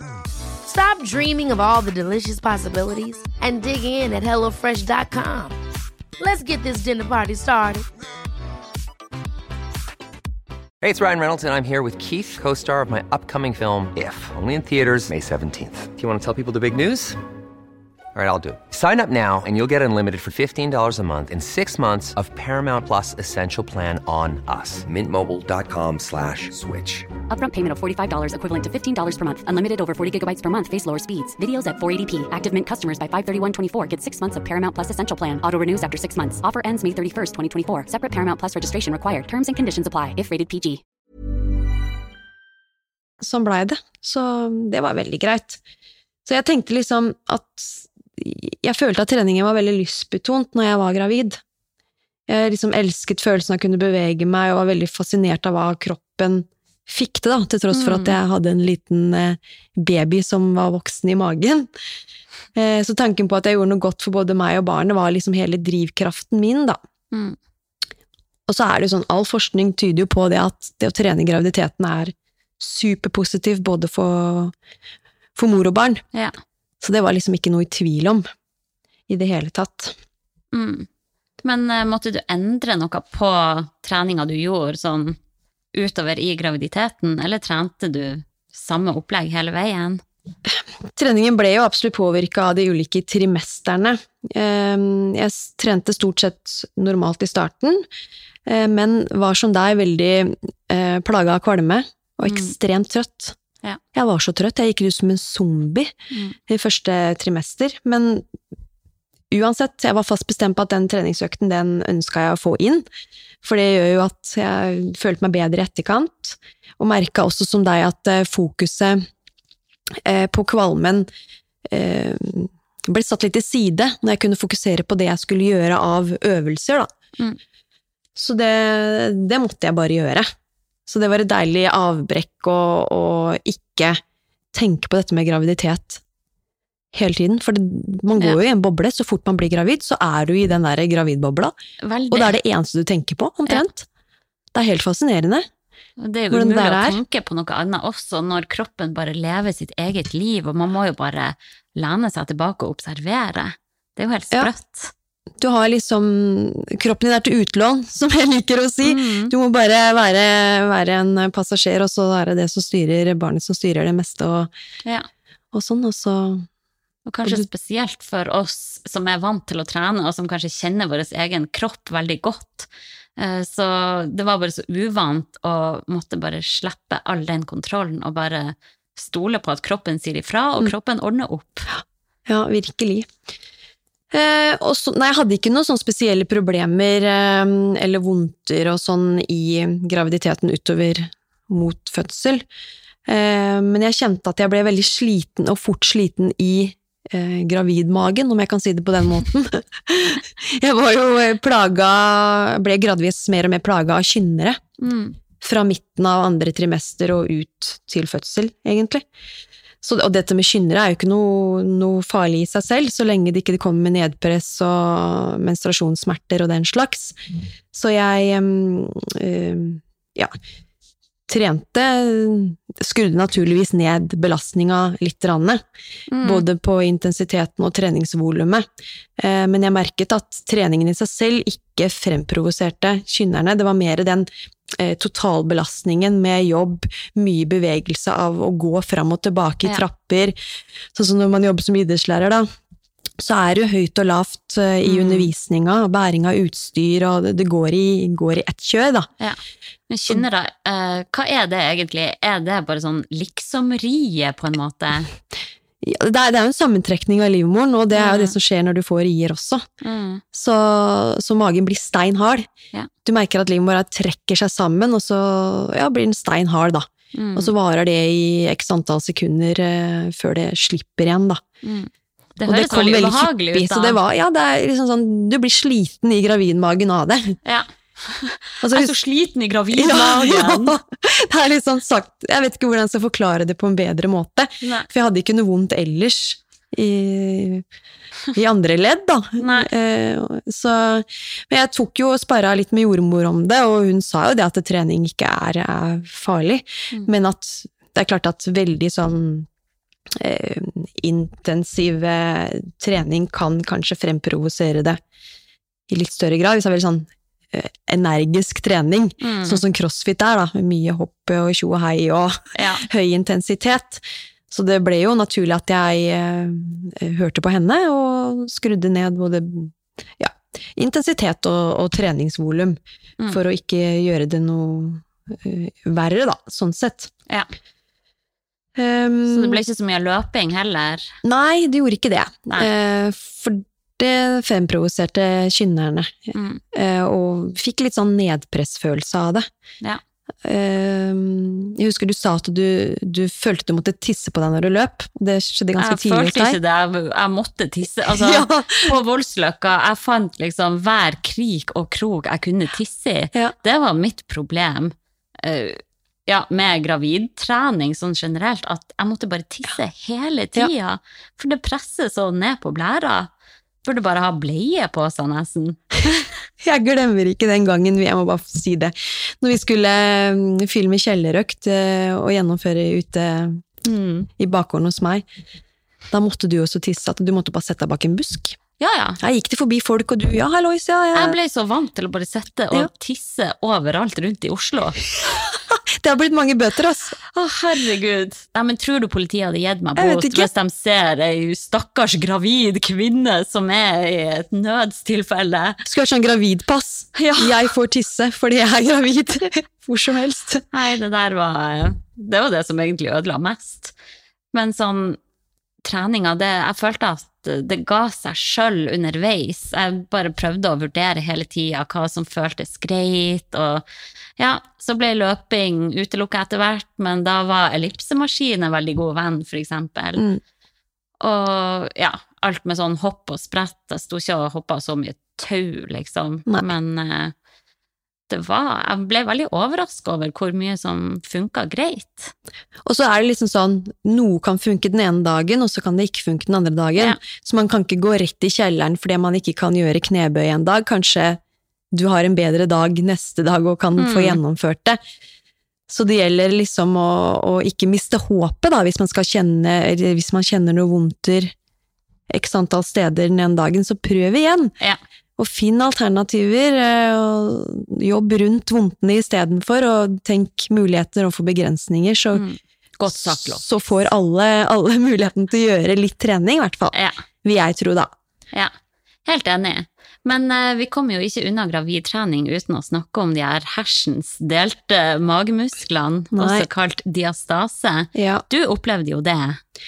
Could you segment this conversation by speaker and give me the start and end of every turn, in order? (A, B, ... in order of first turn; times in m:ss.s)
0:00.7-0:05.6 A
0:06.2-0:07.9 A
0:10.8-0:17.2 B
0:18.2-0:27.1 B
0:27.3-0:40.8 C
0:43.2-0:45.6 D
0:46.2-0:51.4 D
0:52.3-1:01.7 D
0:57.7-0:58.2 E
1:02.6-1:06.8 D
1:07.1-1:07.4 E
1:08.5-1:14.5 D
1:15.4-1:16.0 D
1:16.8-1:18.2 D
1:19.1-1:20.0 D
1:20.5-1:20.9 E
1:21.4-1:25.2 E
1:25.7-1:30.0 E
1:30.5-1:37.9 D
1:38.5-1:43.4 D
1:42.2-1:42.5 E
1:44.0-1:45.9 D
1:46.5-1:48.3 D
1:49.3-1:52.9 D
1:53.4-1:59.0 D
2:00.0-2:01.1 D
2:01.7-2:06.9 D
2:08.2-2:10.3 D
2:10.9-2:14.0 D
2:14.5-2:16.0 D
2:16.9-2:21.5 D
2:21.8-2:22.4 E
2:22.1-2:23.9 D
2:24.5-2:25.5 D
2:26.0-2:34.9 E
2:26.3-2:27.0 D
2:35.4-2:44.5 D
2:38.8-2:39.3 E
2:45.5-2:46.5 D
2:47.1-3:01.7 E
3:01.7-3:03.1 D
3:04.1-3:12.4 D
3:13.1-3:24.6 D
3:24.8-3:25.2 E
3:25.4-3:29.0 D
3:29.8-3:37.2 D
3:37.7-3:40.3 D
3:41.3-3:45.6 D
3:46.1-3:46.4 E
3:46.2-3:48.7 D
3:49.2-4:00.4 D
4:00.9-4:02.5 D
4:03.2-4:09.1 D
4:04.8-4:05.3 E
4:09.9-4:15.1 E
4:15.8-4:19.6 D
4:17.9-4:18.4 E
4:19.8-4:20.2 E
4:20.3-4:22.5 D
4:23.0-4:31.4 D
4:27.2-4:27.5 E
4:31.6-4:34.0 E
4:32.5-4:37.4 D
4:37.4-4:40.7 E
4:38.6-4:39.0 D
4:39.7-4:47.6 D
4:44.6-4:44.9 E
4:48.4-4:59.5 D
4:49.4-4:49.7 E
5:00.2-5:05.0 D
5:05.9-5:22.8 D
5:09.2-5:09.6 E
5:12.6-5:12.9 E
5:23.3-5:27.1 D
5:28.8-5:29.6 D
5:29.3-5:31.1 E
5:31.2-5:39.5 D
5:36.3-5:36.6 E
5:40.4-5:46.6 D
5:45.8-6:03.3 E
5:48.1-5:49.0 D
6:03.8-6:06.3 E
6:06.6-6:13.6 D
6:13.8-6:14.3 E
6:14.4-6:15.2 D
6:16.1-6:18.6 D
6:18.8-6:19.2 E
6:19.2-6:21.4 D
6:21.2-6:25.4 E
6:25.3-6:27.2 D
6:27.3-6:35.8 E
6:30.0-6:30.5 D
6:35.8-6:40.6 D
6:37.2-6:37.6 E
6:40.7-6:43.9 E
6:44.5-6:45.2 E
6:45.8-6:53.8 E
6:54.4-7:00.3 E
7:01.2-7:07.3 E
7:08.3-7:12.3 E
7:12.8-7:21.4 D
7:21.9-7:25.0 D
7:24.0-7:24.4 E
7:25.9-7:31.5 D
7:32.3-7:34.7 D
7:35.4-7:42.4 D
7:42.3-7:43.6 E
7:43.1-7:48.1 D
7:49.3-7:59.6 E
7:56.3-7:56.7 D
7:58.2-7:58.4 D